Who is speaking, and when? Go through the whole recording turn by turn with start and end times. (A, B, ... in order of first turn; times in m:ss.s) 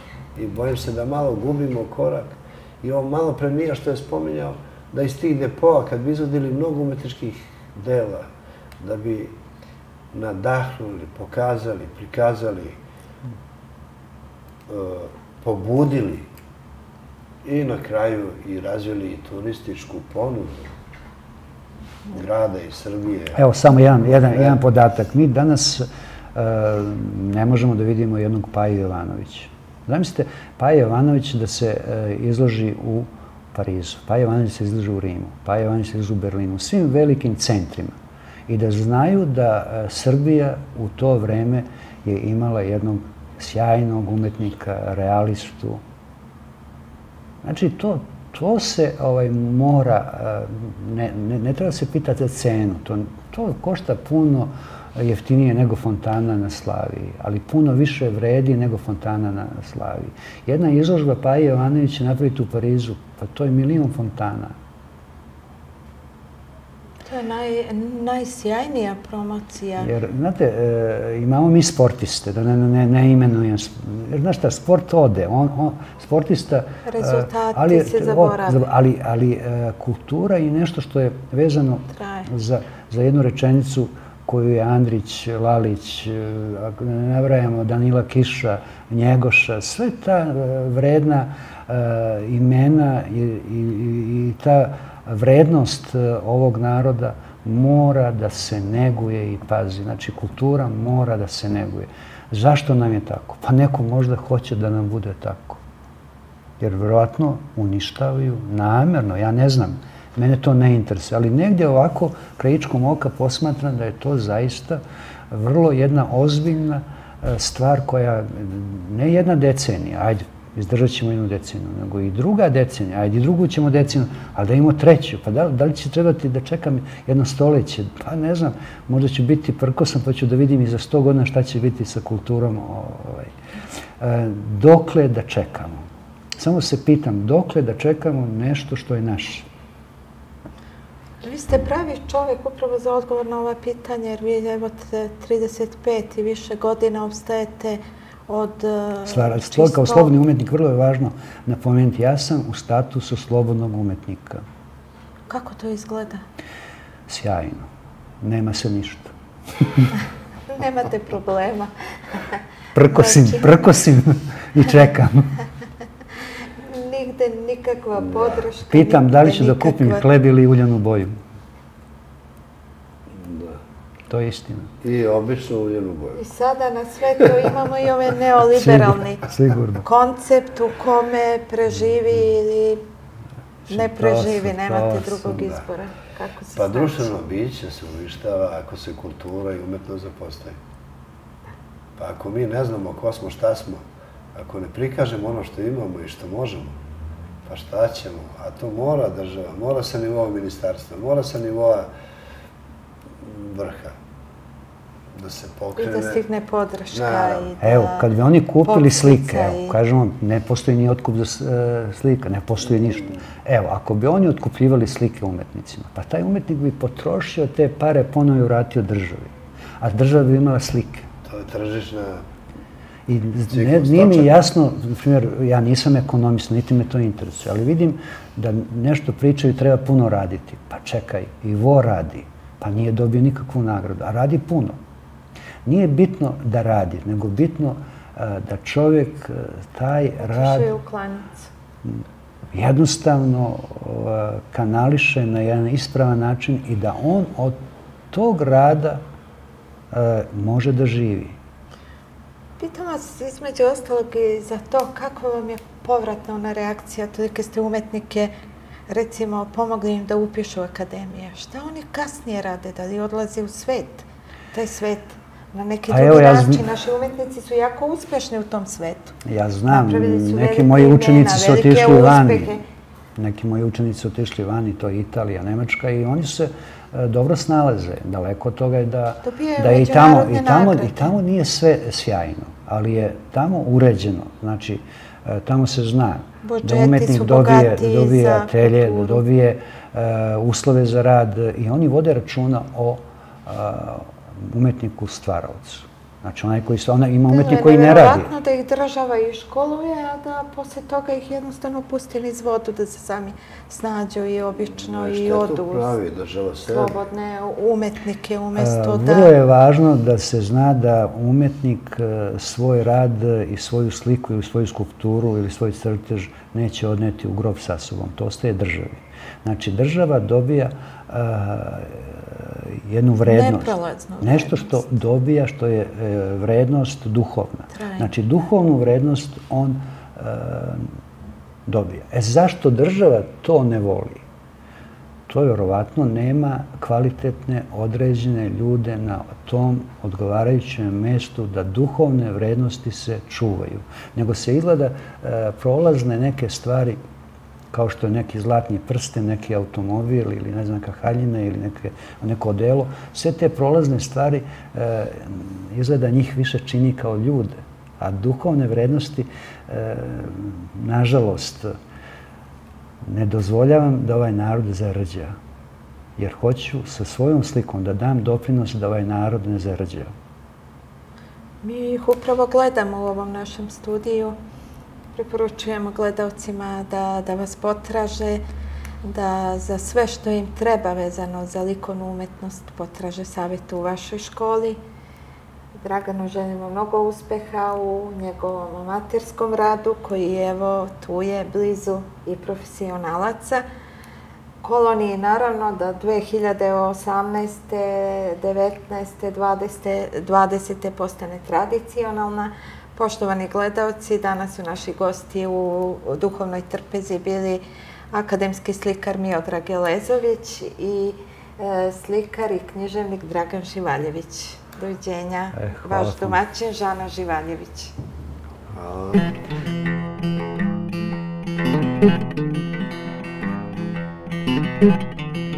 0:00.3-0:08.3 A
0:08.8-0:09.4 A
0:10.1-0:12.8 A
0:14.7-0:16.3 A
0:17.4-0:20.7 A
0:22.1-0:23.4 A
0:23.4-0:37.9 B
0:24.1-0:24.6 A
0:38.5-0:45.8 B
0:47.4-1:04.5 B
1:07.0-1:09.9 C
1:09.8-1:45.6 B
1:16.9-1:18.6 C
1:21.9-1:22.3 C
1:46.6-2:13.3 B
2:14.0-2:15.8 B
2:16.4-2:19.5 B
2:21.2-2:30.2 C
2:29.0-2:34.4 B
2:35.3-2:36.2 C
2:37.1-2:37.7 B
2:38.2-2:40.0 B
2:40.5-2:43.6 C
2:42.7-2:45.4 B
2:46.6-2:50.0 C
2:48.0-2:48.4 A
2:48.6-2:51.1 B
2:53.1-2:53.6 A
2:54.1-2:54.7 B
2:54.8-2:56.2 A
2:56.2-2:59.3 C
2:58.5-2:59.8 B
2:59.8-3:02.8 C
3:03.7-3:05.5 B
3:03.7-3:07.2 C
3:06.5-3:10.6 A
3:12.0-3:13.8 A
3:14.3-3:16.7 A
3:17.4-3:21.9 A
3:23.2-3:24.0 A
3:25.1-3:26.2 A
3:25.8-3:28.1 C
3:26.9-3:27.5 A
3:27.6-3:41.1 B
3:28.6-3:29.8 C
3:41.2-3:42.2 A
3:43.1-3:54.8 B
3:43.5-3:44.5 A
3:55.6-4:00.7 B
4:00.2-4:01.5 C
4:02.5-4:07.6 B
4:08.1-4:09.0 B
4:09.9-4:11.4 B
4:12.6-4:18.3 C
4:18.9-4:32.6 C
4:25.9-4:26.6 B
4:29.2-4:32.6 B
4:33.2-4:58.3 B
4:39.2-4:41.1 C
4:46.4-4:49.2 C
4:57.3-5:05.9 C
5:04.7-5:07.0 A
5:06.7-5:09.4 C
5:08.6-5:31.0 B
5:23.2-5:24.9 C
5:27.7-5:28.1 C
5:31.7-5:34.2 B
5:35.3-5:47.0 B
5:47.7-6:01.7 B
6:03.0-6:05.4 B
6:06.2-6:10.1 B
6:11.6-6:14.4 C
6:15.1-6:18.4 C
6:19.0-6:24.8 C
6:25.8-6:33.6 C
6:34.6-6:57.9 C
6:55.5-6:56.4 B
6:58.7-6:59.3 A